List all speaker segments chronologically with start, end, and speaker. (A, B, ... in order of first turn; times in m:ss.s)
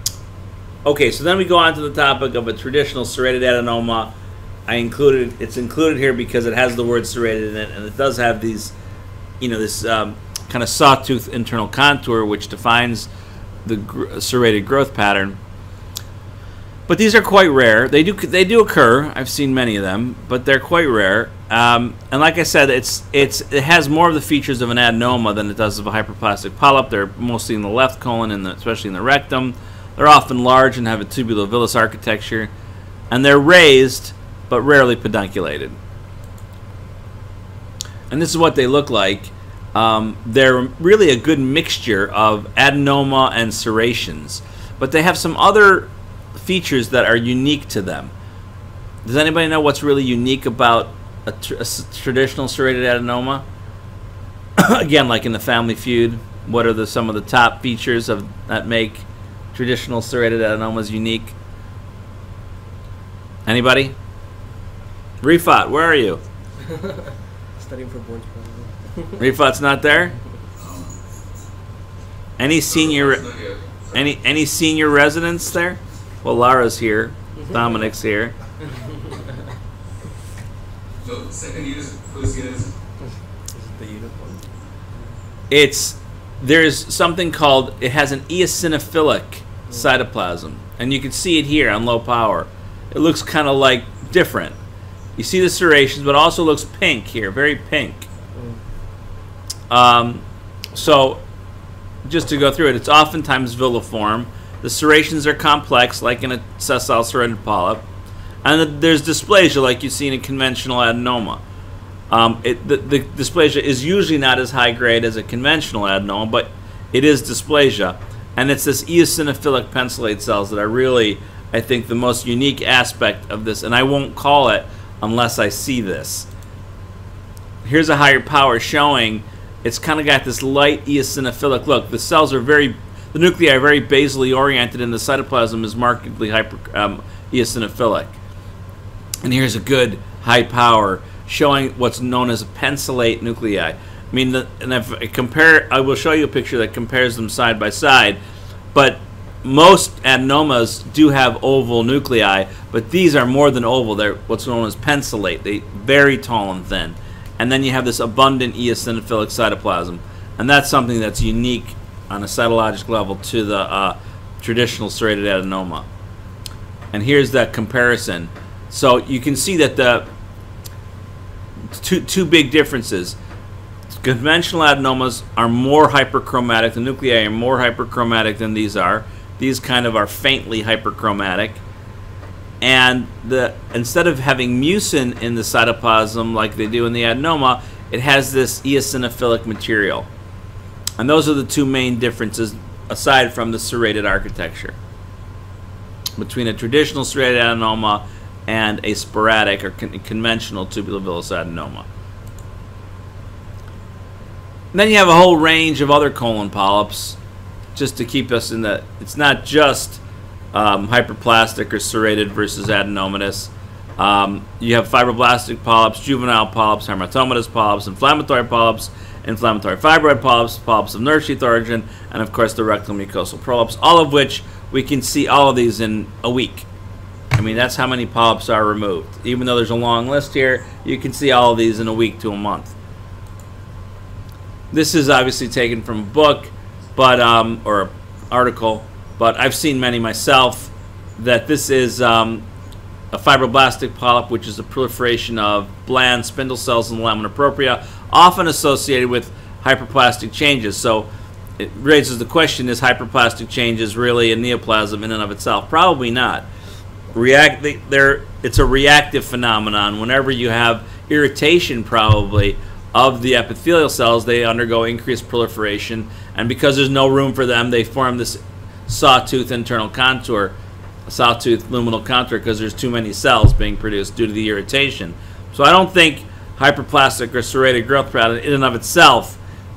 0:00.8-0:04.1 A
0:04.7-0:08.7 A
0:09.4-0:13.1 A
0:13.6-0:15.4 A
0:16.9-0:32.5 A
0:33.1-0:35.8 A
0:38.1-0:48.1 A
0:49.0-0:53.4 A
0:54.6-1:01.4 A
1:03.5-1:04.0 A
1:05.2-1:06.2 A
1:06.6-1:09.3 B
1:09.2-1:10.2 A
1:10.6-1:11.0 C
1:12.4-1:13.3 A
1:12.7-1:14.0 C
1:13.9-1:18.3 A
1:17.5-1:17.7 B
1:18.8-1:19.2 B
1:21.0-1:22.8 C
1:23.5-1:25.0 B
1:25.5-1:34.6 A
1:35.2-1:38.1 A
1:38.4-1:38.6 B
1:39.7-1:41.2 A
1:42.0-1:47.8 A
1:48.4-1:51.4 A
1:52.1-2:06.3 A
2:07.6-2:18.2 A
2:19.2-2:28.2 A
2:28.7-2:45.9 A
2:46.9-2:50.1 A
2:51.7-2:53.2 A
2:54.0-3:01.6 A
3:02.6-3:10.1 A
3:11.0-3:14.8 A
3:16.2-3:21.9 A
3:24.7-3:27.2 A
3:27.8-3:30.0 A
3:30.5-3:46.7 A
3:47.4-3:52.7 A
3:54.7-4:02.5 A
4:03.1-4:16.5 A
4:17.1-4:30.6 A
4:31.1-4:39.4 A